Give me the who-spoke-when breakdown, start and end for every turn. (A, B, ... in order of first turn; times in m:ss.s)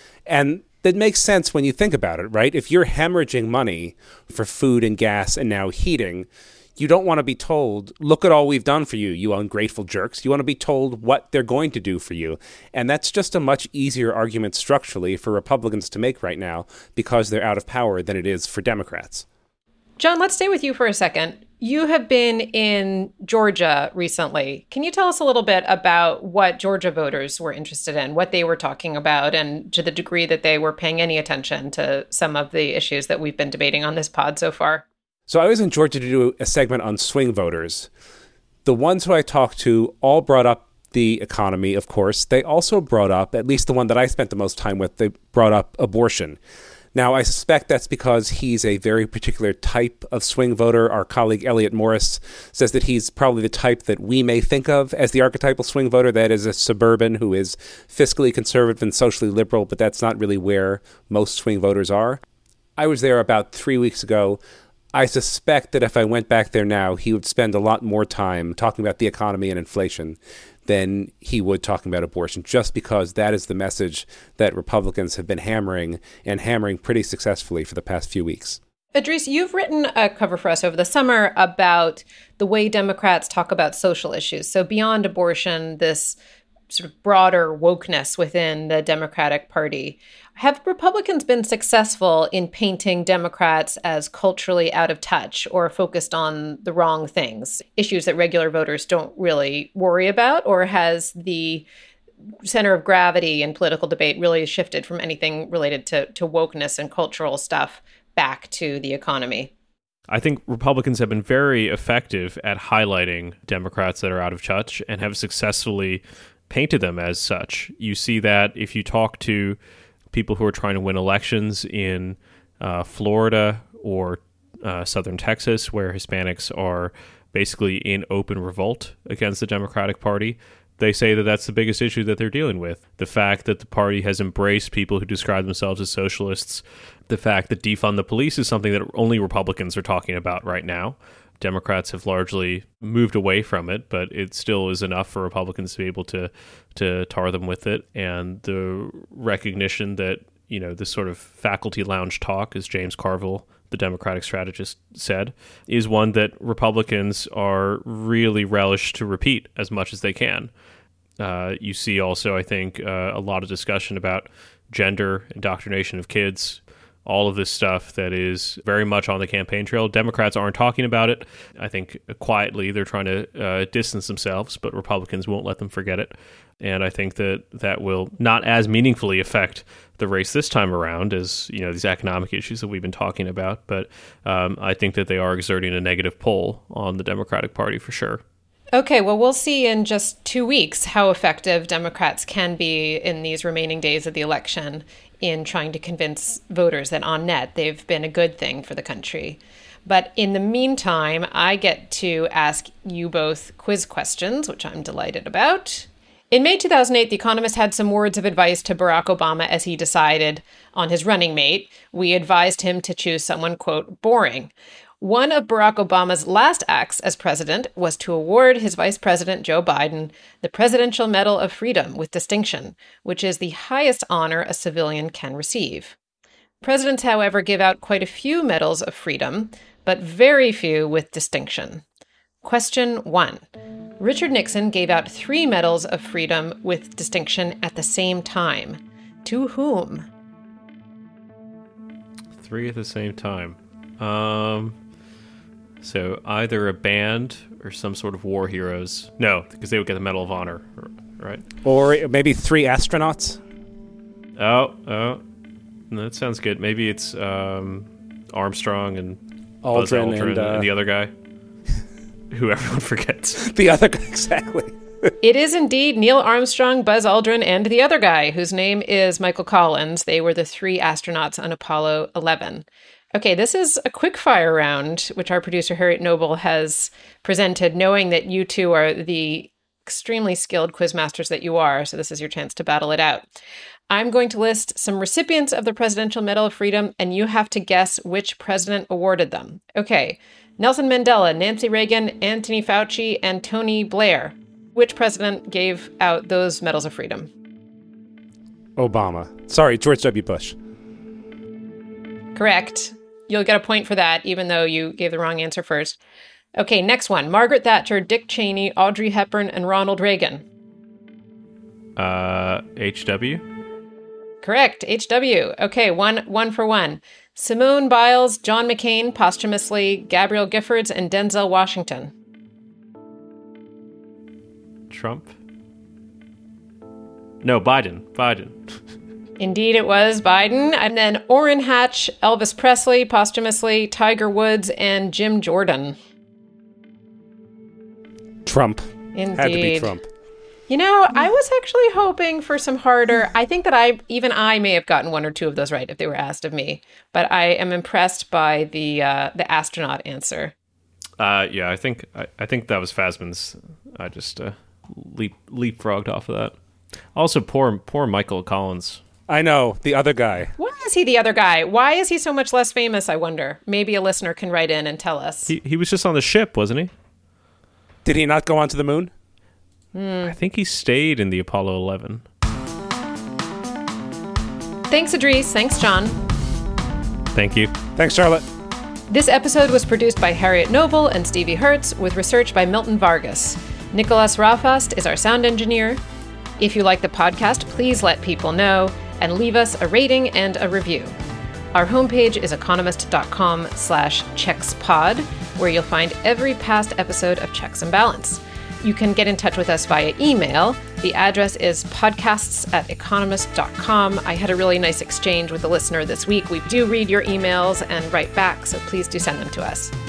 0:00.3-0:19.2 A
0:20.0-0:34.8 B
0:35.3-0:37.9 A
0:38.6-0:46.4 A
0:47.0-1:02.2 A
1:02.8-1:04.4 A
1:04.9-1:18.6 A
1:19.0-1:26.2 B
1:26.7-1:41.7 B
1:42.4-1:49.5 B
1:50.1-1:59.6 C
2:00.1-2:40.5 C
2:41.2-3:08.2 C
3:08.7-3:46.0 B
3:46.6-3:51.8 B
3:52.4-3:53.5 B
3:54.0-4:00.1 B
4:02.4-4:04.8 C
4:05.8-4:11.4 C
4:11.6-4:13.4 A
4:14.4-4:15.2 C
4:15.9-4:19.2 C
4:19.6-4:20.7 A
4:19.7-4:21.1 C
4:22.3-4:23.4 C
4:23.4-4:25.1 A
4:25.2-4:43.3 B
4:43.9-4:57.3 B
4:58.8-5:00.6 A
5:02.4-5:06.0 B
5:06.6-5:10.4 B
5:12.0-5:13.4 C
5:14.4-5:22.1 B
5:24.9-5:25.3 C
5:27.4-5:28.7 C
5:29.4-5:36.0 B
5:38.4-5:40.0 A
5:39.2-5:40.0 B
5:40.7-5:50.5 B
5:51.2-5:56.5 C
5:57.2-5:59.0 C
5:59.3-6:00.5 A
6:00.6-6:05.5 B
6:05.5-6:06.9 C
6:08.0-6:09.1 A
6:09.9-6:10.4 B
6:10.2-6:12.2 C
6:14.9-6:16.2 B
6:17.3-6:17.7 C
6:18.0-6:18.4 A
6:19.1-6:26.0 B
6:26.6-6:31.1 B
6:31.7-6:49.9 B